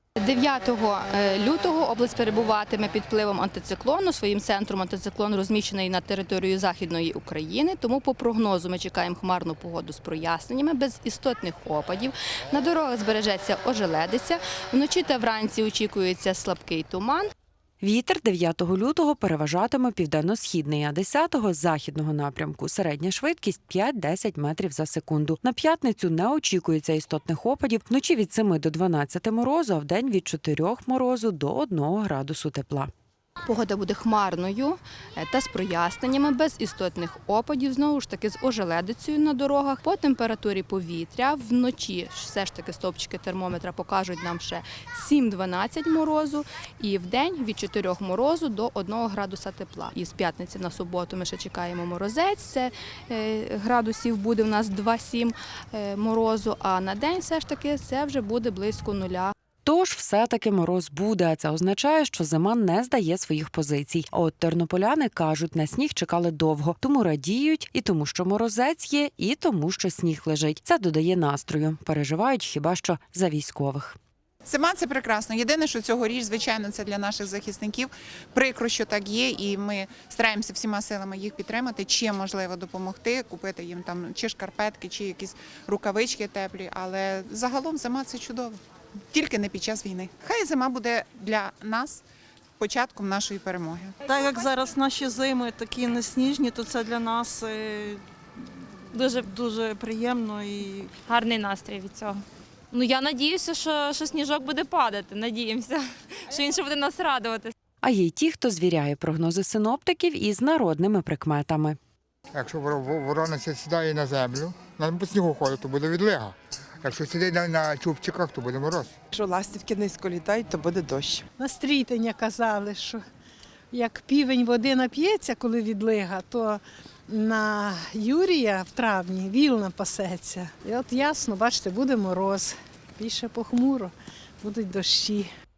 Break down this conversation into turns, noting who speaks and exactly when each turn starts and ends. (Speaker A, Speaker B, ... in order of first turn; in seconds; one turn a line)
Speaker A: 0.2-17.3
Speaker B: 17.8-32.9
Speaker A: 33.5-59.3
Speaker B: 59.6-74.0
Speaker C: 74.5-88.6
Speaker C: 89.1-92.0
Speaker C: 92.6-94.0
Speaker D: 94.0-98.0
Speaker E: 98.9-99.3
Speaker D: 99.2-100.9
Speaker E: 101.0-107.5
Speaker B: 107.8-111.8
Speaker F: 112.3-118.9
Speaker G: 119.1-121.2
Speaker H: 121.4-123.0
Speaker H: 123.7-135.3